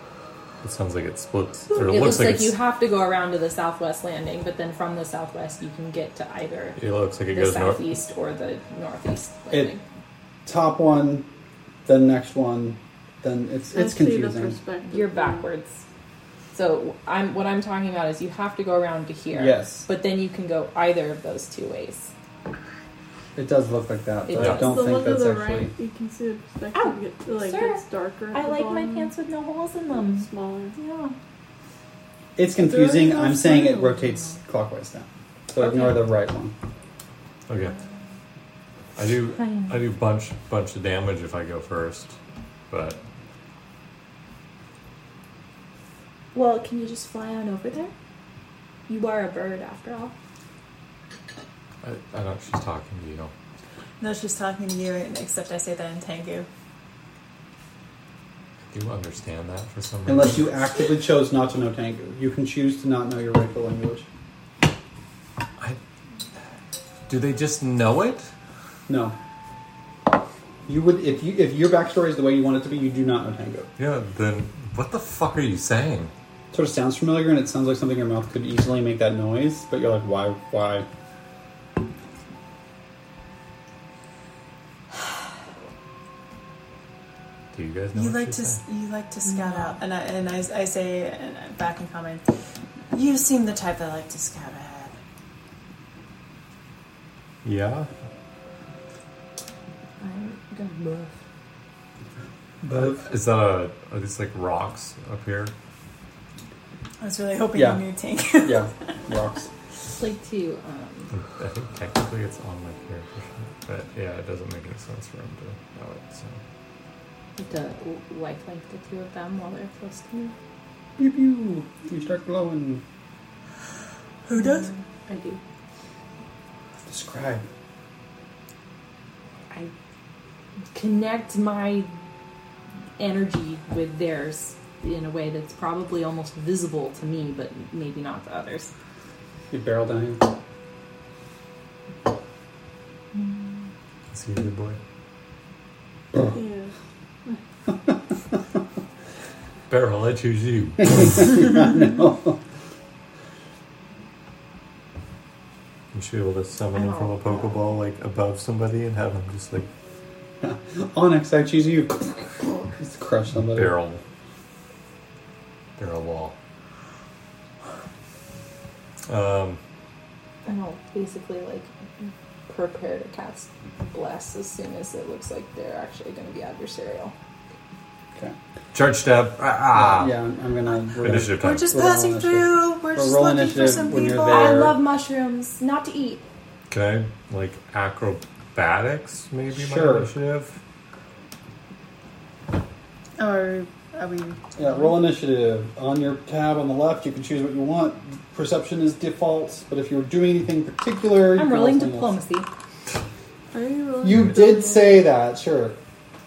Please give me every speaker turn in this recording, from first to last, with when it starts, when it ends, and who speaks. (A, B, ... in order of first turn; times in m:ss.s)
0:00.6-0:02.6 A
0:01.7-0:06.8 B
0:06.8-0:07.9 A
0:07.3-0:09.8 B
0:10.4-0:11.3 C
0:11.8-0:14.6 C
0:13.7-0:15.4 D
0:14.9-0:15.8 B
0:16.5-0:22.1 B
0:19.3-0:19.9 C
0:23.4-0:25.7 C
0:24.2-0:24.9 B
0:24.4-0:29.1 D
0:26.7-0:31.1 B
0:29.9-0:30.8 D
0:32.4-0:36.5 C
0:33.1-0:34.3 B
0:35.6-0:36.0 B
0:37.5-0:37.8 A
0:39.0-0:42.2 A
0:39.4-0:39.8 B
0:42.7-0:43.0 A
0:46.3-0:47.9 B
0:48.9-0:50.1 B
0:51.8-0:53.3 A
0:54.0-0:56.5 E
0:58.7-1:00.5 A
1:00.0-1:04.1 C
1:07.1-1:08.3 A
1:08.9-1:09.2 C
1:10.6-1:13.7 C
1:13.8-1:16.1 A
1:16.5-1:20.9 C
1:27.5-1:28.6 A
1:27.9-1:32.2 E
1:29.2-1:29.7 B
1:32.9-1:35.0 E
1:37.4-1:37.9 A
1:40.0-1:41.1 B
1:42.6-1:43.0 C
1:42.7-1:45.5 A
1:47.0-1:48.7 E
1:47.5-1:47.8 C
1:48.4-1:49.5 C
1:49.9-1:51.1 B
1:51.1-1:56.4 A
1:57.4-2:00.3 B
2:01.0-2:02.8 C
2:04.2-2:04.7 E
2:04.3-2:05.4 B
2:06.8-2:07.4 C
2:10.7-2:11.9 B
2:13.0-2:18.7 B
2:19.5-2:20.2 C
2:24.1-2:24.8 A
2:26.3-2:26.7 D
2:29.7-2:31.3 A
2:30.9-2:32.4 C
2:35.9-2:39.7 A
2:36.7-2:37.5 B
2:40.4-2:43.7 C
2:43.4-2:44.0 A
2:45.8-2:46.4 A
2:49.1-2:49.6 A
2:50.4-2:57.1 B
2:58.7-3:00.1 A
2:59.7-3:04.8 C
3:01.0-3:01.7 A
3:01.3-3:04.6 E
3:04.1-3:06.2 B
3:06.7-3:10.6 A
3:09.5-3:10.1 C
3:13.2-3:14.4 E
3:14.6-3:22.2 C
3:21.3-3:22.5 B
3:23.5-3:25.1 D
3:24.0-3:25.8 C